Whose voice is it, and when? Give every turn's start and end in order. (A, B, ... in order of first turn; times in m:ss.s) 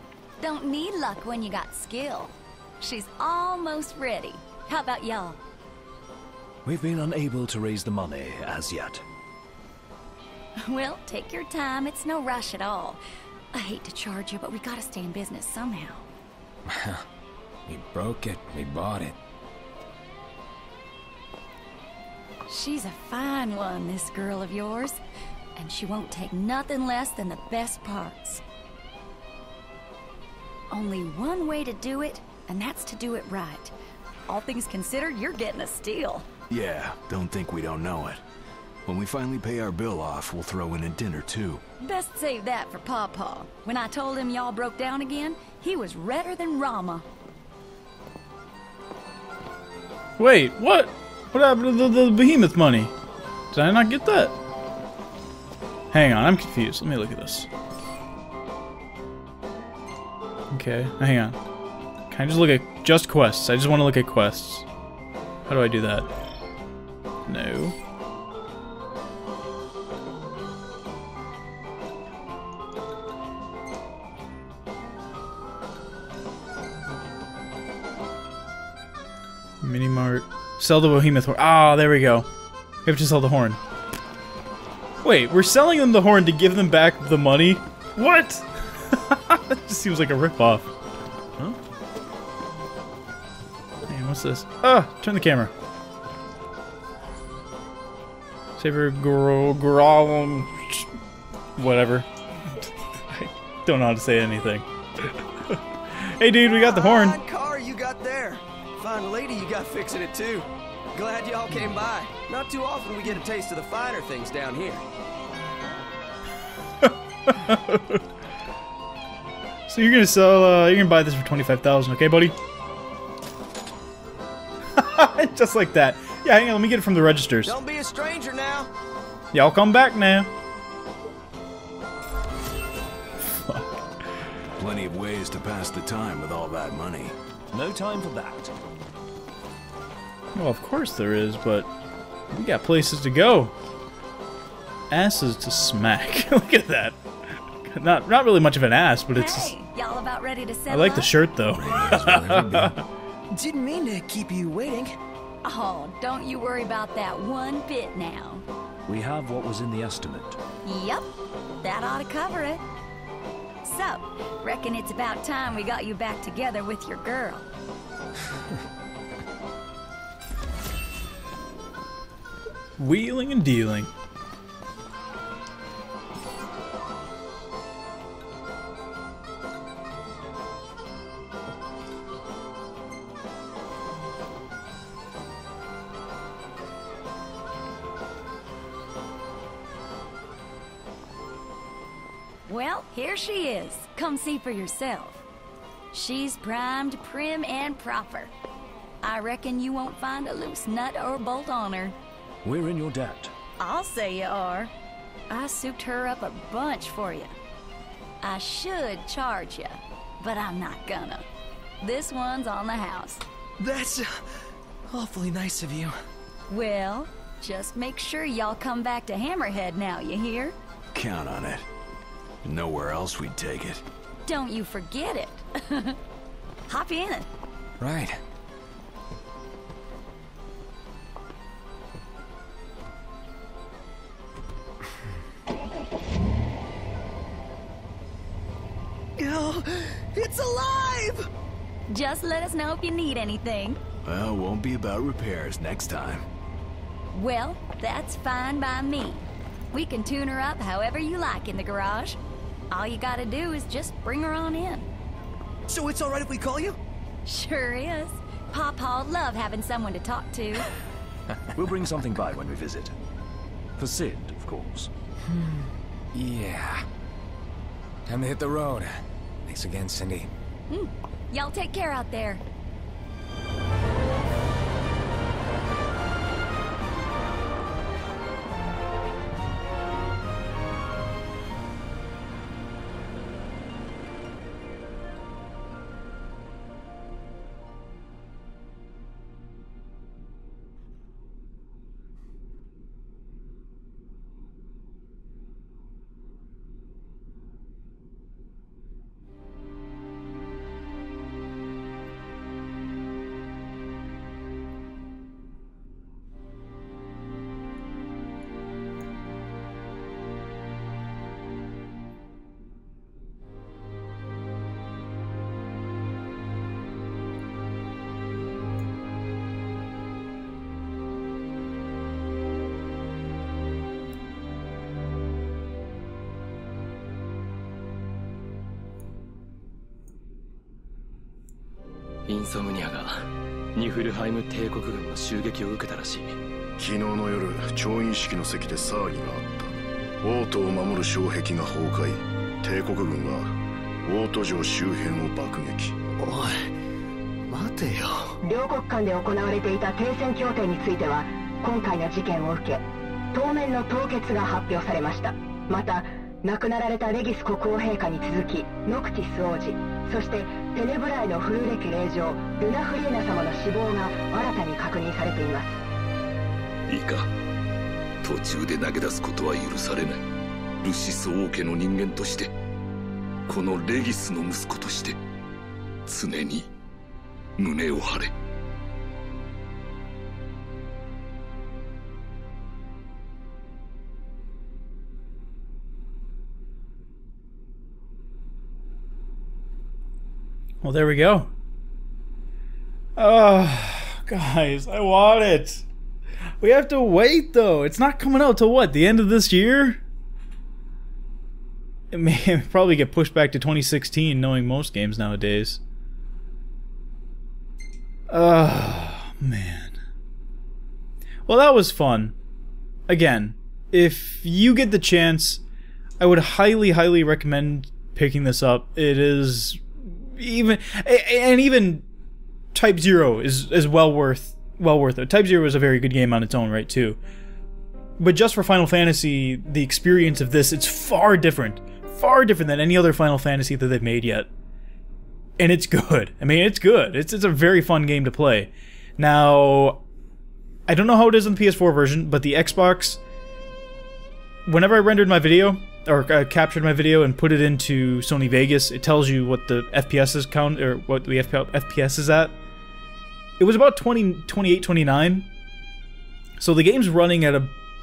0:00.4-0:05.4 A
0:06.6-0:09.0 B
0:10.6-0:13.0 A
0:13.5-0:16.1 A
0:16.6-0:17.0 C
0:17.7-0:19.2 C
0:22.5-0:25.0 A
0:25.6-0:28.4 A
0:30.7-0:33.7 A
0:34.3-0:36.3 A
0:36.5-0:38.2 D
0:38.9-0:41.6 D
0:41.8-0:47.0 A
0:50.2-0:52.9 E
0:53.5-0:54.3 E
0:55.9-0:57.5 E
1:00.5-1:01.4 E
1:02.1-1:04.7 E
1:05.5-1:06.1 E
1:07.3-1:07.8 E
1:19.6-1:22.3 E
1:22.8-1:23.6 E
1:25.0-1:30.7 E
1:33.9-1:35.5 E
1:38.6-1:40.9 E
1:41.6-1:42.1 E
1:42.6-1:47.2 E
1:46.4-1:54.8 F
1:56.8-1:58.0 E
1:59.7-2:02.4 E
2:04.8-2:07.6 E
2:07.4-2:08.7 F
2:09.3-2:10.3 E
2:13.3-2:13.7 E
2:14.6-2:17.2 D
2:17.5-2:18.5 B
2:20.4-2:21.7 E
2:22.3-2:23.5 E
2:24.9-2:27.0 E
2:27.6-2:29.5 E
2:29.1-2:31.1 A
2:30.7-2:32.8 E
2:31.5-2:32.8 C
2:33.3-2:35.0 F
2:35.4-2:38.4 A
2:38.9-2:40.4 B
2:40.6-2:41.1 A
2:41.6-2:42.6 A
2:43.6-2:47.5 A
2:52.8-2:53.9 E
3:12.5-3:15.2 A
3:15.9-3:18.3 A
3:19.0-3:22.0 A
3:22.4-3:23.3 B
3:23.6-3:24.7 A
3:25.3-3:27.3 A
3:28.2-3:31.3 A
3:31.8-3:33.2 A
3:33.6-3:34.2 F
3:34.9-3:35.9 F
3:36.5-3:40.6 A
3:40.9-3:41.7 D
3:42.4-3:43.8 D
3:44.2-3:46.0 A
3:46.7-3:47.3 A
3:47.8-3:48.2 C
3:59.2-4:01.3 F
4:01.9-4:03.8 A
4:04.0-4:06.3 D
4:07.1-4:12.2 A
4:12.7-4:14.9 A
4:15.7-4:16.8 F
4:17.2-4:20.7 A
4:21.6-4:23.0 B
4:23.8-4:24.9 B
4:25.2-4:26.9 C
4:28.1-4:30.3 C
4:30.7-4:32.4 A
5:32.3-5:36.4 G
5:36.8-5:46.0 H
5:46.2-5:46.5 G
5:47.5-5:48.4 G
5:48.4-6:05.8 I
6:06.9-6:07.3 J
6:08.2-6:10.2 J
6:10.8-6:12.5 J
6:13.5-6:15.2 J
6:16.1-6:16.7 J
6:17.6-6:18.3 J
6:30.8-6:31.5 E
6:33.2-6:35.8 E
6:36.6-6:40.0 E
6:42.1-6:45.8 E
6:48.3-6:50.0 E
6:51.5-6:52.3 E
6:53.1-6:55.6 E
6:56.2-7:02.1 E
7:02.7-7:07.2 E
7:08.2-7:14.5 E
7:15.6-7:20.0 E
7:20.9-7:23.2 E
7:24.7-7:32.6 E
7:33.6-7:35.5 E
7:36.6-7:37.7 E